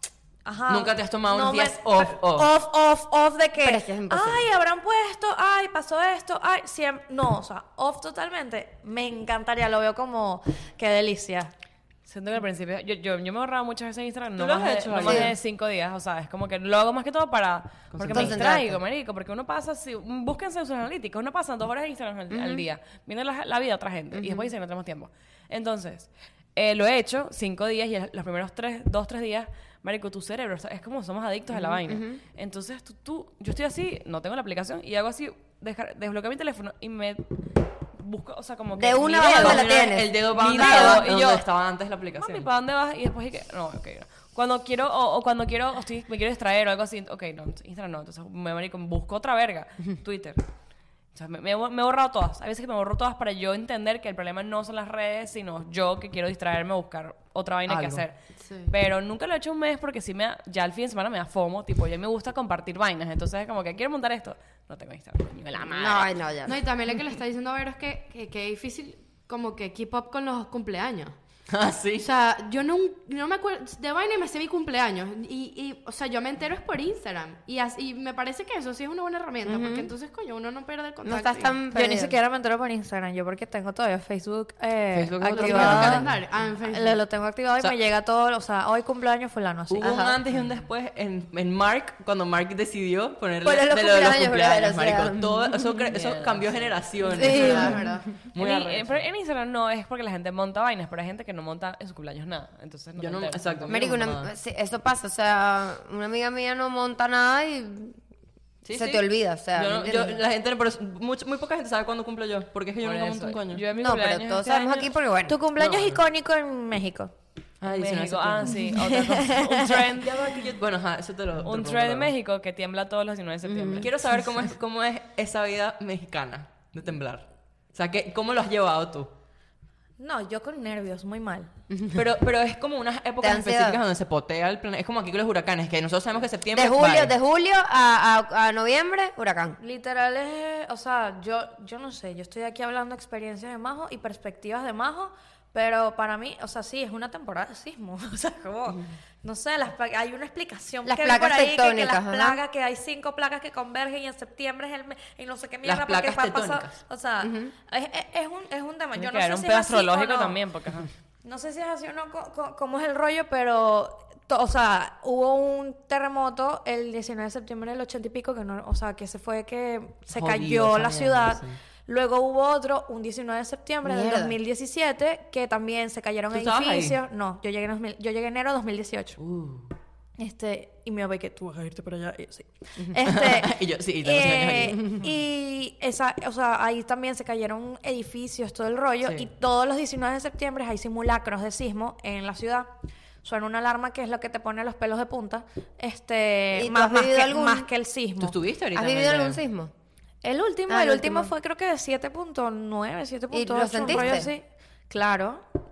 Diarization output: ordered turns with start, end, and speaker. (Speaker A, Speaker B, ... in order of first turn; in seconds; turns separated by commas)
Speaker A: 0.5-11.5, Speaker B: 0.7-2.5, Speaker C: 3.6-4.4, Speaker D: 12.1-41.5, Speaker B: 14.4-15.3, Speaker C: 15.0-15.3, Speaker B: 17.9-18.4, Speaker C: 18.1-18.8, Speaker C: 22.3-22.6, Speaker C: 24.1-24.5, Speaker C: 31.7-32.2, Speaker C: 38.8-41.1, Speaker B: 39.3-42.5, Speaker D: 42.1-50.4, Speaker D: 51.1-58.2, Speaker B: 57.7-58.0, Speaker E: 58.4-58.7, Speaker D: 58.7-66.2, Speaker C: 65.7-66.6, Speaker E: 66.5-71.2, Speaker B: 71.5-72.1, Speaker E: 72.0-81.6, Speaker C: 79.5-79.9, Speaker C: 81.0-82.1, Speaker A: 81.7-86.1, Speaker B: 84.9-86.2, Speaker E: 85.3-87.0, Speaker A: 86.6-90.0, Speaker B: 89.7-99.0, Speaker C: 89.8-90.2, Speaker C: 93.4-95.8, Speaker D: 95.9-103.8, Speaker E: 97.1-98.2, Speaker C: 97.2-97.8, Speaker B: 103.0-104.3, Speaker C: 103.7-108.0, Speaker B: 108.7-113.6, Speaker C: 108.7-110.2, Speaker D: 112.8-114.9, Speaker C: 113.8-115.4, Speaker A: 115.3-117.1, Speaker B: 115.6-116.0, Speaker B: 117.6-118.6, Speaker D: 117.7-120.4, Speaker A: 118.5-119.8, Speaker B: 120.0-122.1, Speaker D: 121.4-123.9, Speaker C: 123.5-123.9, Speaker B: 123.8-129.1, Speaker A: 130.0-131.5, Speaker C: 131.7-132.0, Speaker B: 131.9-137.1, Speaker C: 133.2-133.8, Speaker C: 136.5-139.6, Speaker A: 139.6-160.4, Speaker C: 150.8-152.4, Speaker B: 155.6-156.8, Speaker C: 157.2-157.5, Speaker D: 159.0-160.9, Speaker A: 161.2-179.2, Speaker B: 170.1-171.6, Speaker C: 173.8-174.3, Speaker B: 176.3-177.0, Speaker B: 179.2-179.7, Speaker A: 180.2-192.7, Speaker B: 183.0-185.1, Speaker A: 193.2-198.4, Speaker C: 196.5-197.7, Speaker B: 198.2-199.4, Speaker C: 198.8-199.7, Speaker A: 200.2-205.4, Speaker C: 200.7-201.3, Speaker C: 203.3-204.3